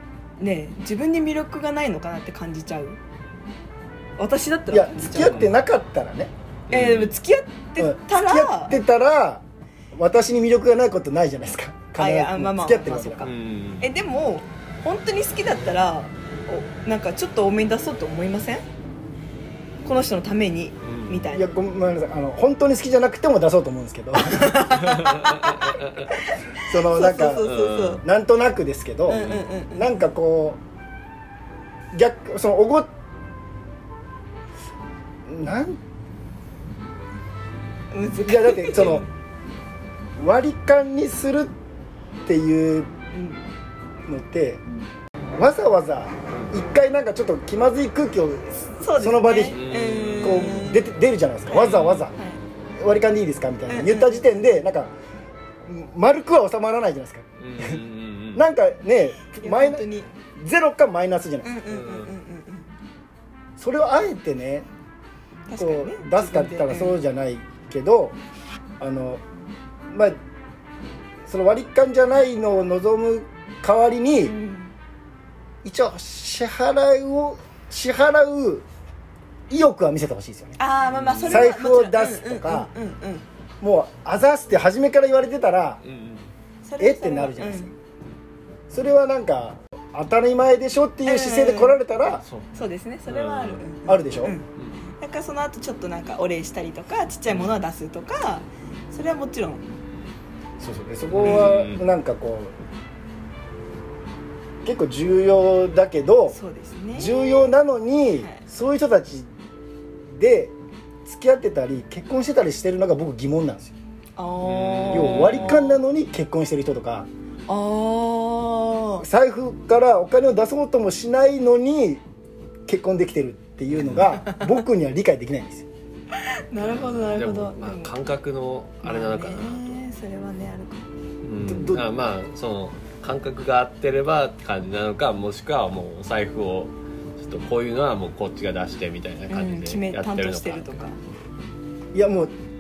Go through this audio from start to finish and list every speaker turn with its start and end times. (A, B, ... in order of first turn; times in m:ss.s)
0:00.4-0:03.0 A
0:04.2-0:05.5 A
0:04.7-0:06.3 B
0:05.2-0:05.5 C
0:06.7-0:07.2 C
0:06.7-0:08.8 A
0:07.8-0:09.4 B
0:10.0-0:13.3 B
0:12.0-0:18.6 A
0:13.2-0:13.9 C
0:19.8-0:21.5 A
0:20.8-0:21.3 C
0:21.3-0:24.7 B
0:24.3-0:28.0 A
0:24.8-0:26.1 C
0:26.6-0:30.6 B
0:27.4-0:28.0 C
0:29.1-0:29.9 A
0:31.9-0:32.9 B
0:35.3-0:35.8 B
0:37.9-0:39.0 A
0:38.2-0:39.1 B
0:40.2-0:41.5 B
0:42.3-0:42.9 B
0:43.1-0:43.4 A
0:44.1-0:44.6 B
0:45.4-0:49.6 B
0:46.3-0:46.6 C
0:48.8-0:50.9 A
0:49.5-0:50.5 C
0:50.2-0:52.2 B
0:51.5-0:52.4 A
0:51.5-0:52.1 C
0:52.8-0:54.9 B
0:53.7-0:54.2 A
0:55.7-0:57.8 B
0:57.4-0:58.4 C
0:58.3-0:59.8 B
0:59.4-1:00.1 A
1:00.4-1:01.5 B
1:01.4-1:02.7 A
1:01.7-1:02.2 C
1:03.6-1:04.7 B
1:05.5-1:07.0 A
1:05.6-1:08.2 B
1:08.8-1:09.2 B
1:09.9-1:10.2 B
1:11.3-1:14.3 B
1:14.2-1:14.8 A
1:15.6-1:18.6 B
1:19.5-1:20.6 B
1:20.6-1:23.2 A
1:20.9-1:21.5 C
1:21.3-1:22.7 B
1:23.6-1:25.8 B
1:25.8-1:26.3 C
1:26.6-1:27.8 A
1:26.8-1:27.7 B
1:28.7-1:32.2 B
1:31.1-1:31.8 A
1:32.1-1:33.7 C
1:32.5-1:39.6 A
1:33.9-1:34.4 B
1:34.6-1:34.8 C
1:37.3-1:37.6 C
1:40.6-1:42.6 B
1:41.1-1:41.8 C
1:44.6-1:46.4 B
1:46.3-1:47.5 A
1:46.9-1:49.3 B
1:50.1-1:50.5 B
1:51.0-1:53.7 B
1:54.2-1:55.5 A
1:54.4-1:55.8 C
1:54.9-1:57.1 B
1:57.5-1:59.1 A
1:59.0-2:02.0 B
2:02.7-2:05.7 B
2:03.7-2:04.2 C
2:06.5-2:08.1 A
2:06.6-2:09.8 C
2:08.8-2:10.9 A
2:11.2-2:20.9 C
2:11.5-2:11.8 B
2:19.3-2:21.0 A
2:21.9-2:22.3 B